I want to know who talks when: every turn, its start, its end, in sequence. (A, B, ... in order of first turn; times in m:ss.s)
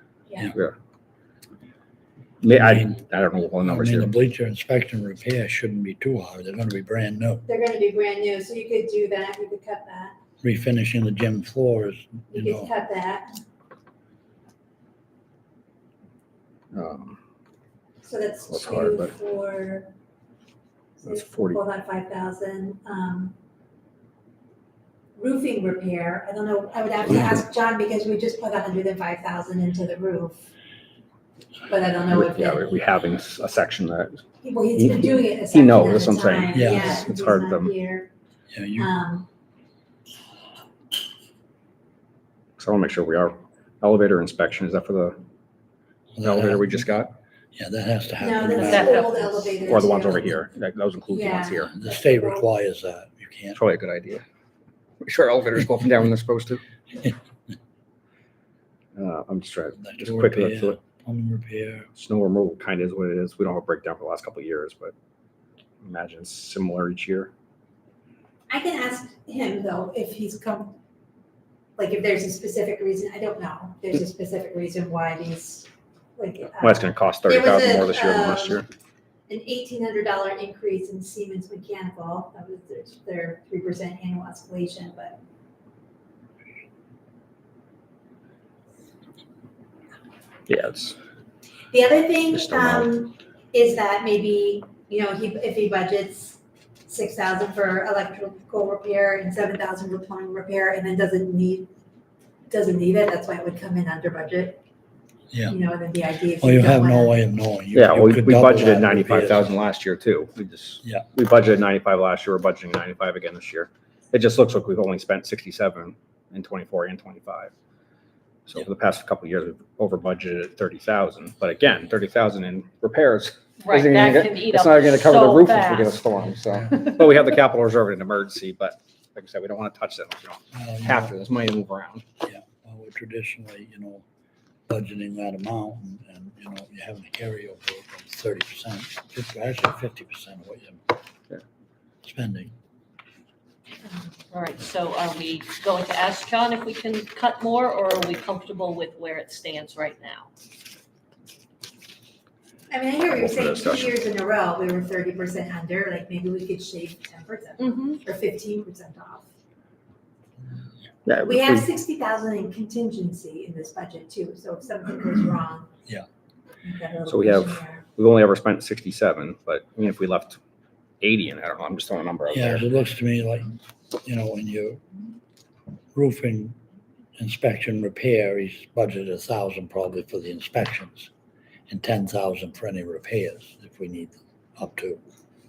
0:00.3-0:00.5 A
0:02.4-0:04.1 B
0:02.5-0:02.9 C
0:03.6-0:07.4 C
0:07.5-0:10.2 A
0:10.4-0:12.7 C
0:12.3-0:13.3 A
0:16.7-0:17.2 B
0:18.0-0:19.9 A
0:18.5-0:19.1 B
0:21.0-0:23.3 A
0:21.1-0:21.6 B
0:25.2-0:30.5 A
0:31.7-0:32.8 A
0:32.1-0:34.2 B
0:34.4-0:38.1 A
0:34.8-0:37.7 B
0:36.5-0:37.0 C
0:38.5-0:38.9 C
0:38.8-0:39.2 A
0:42.6-0:45.2 B
0:46.2-0:46.8 C
0:46.2-0:47.2 B
0:47.6-0:49.1 C
0:48.2-0:50.4 A
0:48.6-0:49.5 D
0:49.7-0:51.7 B
0:51.1-0:52.4 A
0:51.7-0:53.6 C
0:53.5-0:54.2 B
0:55.0-0:56.6 B
0:59.0-1:00.8 B
0:59.8-1:01.9 C
1:01.9-1:04.9 B
1:05.8-1:07.3 B
1:08.5-1:10.8 A
1:11.8-1:18.6 A
1:16.6-1:18.6 B
1:19.3-1:25.2 A
1:30.5-1:30.9 B
1:31.7-1:41.7 A
1:32.3-1:32.9 B
1:42.5-1:44.6 A
1:45.3-1:45.6 C
1:45.5-1:47.2 A
1:46.4-1:49.5 C
1:47.7-1:57.5 B
1:58.5-2:12.0 B
2:03.6-2:07.0 D
2:10.5-2:11.1 C
2:12.2-2:14.0 C
2:14.7-2:20.8 C
2:22.0-2:22.5 C
2:24.3-2:30.3 D
2:32.7-2:39.3 A
2:33.1-2:33.9 B
2:37.6-2:37.9 D
2:41.0-2:41.6 B
2:41.2-2:45.7 A
2:46.6-2:47.8 A
2:47.1-2:50.4 B
2:51.0-2:52.6 B
2:52.3-2:53.5 C
2:54.0-2:54.8 C
2:55.9-2:56.5 C
2:57.2-3:01.1 C
3:01.7-3:05.0 C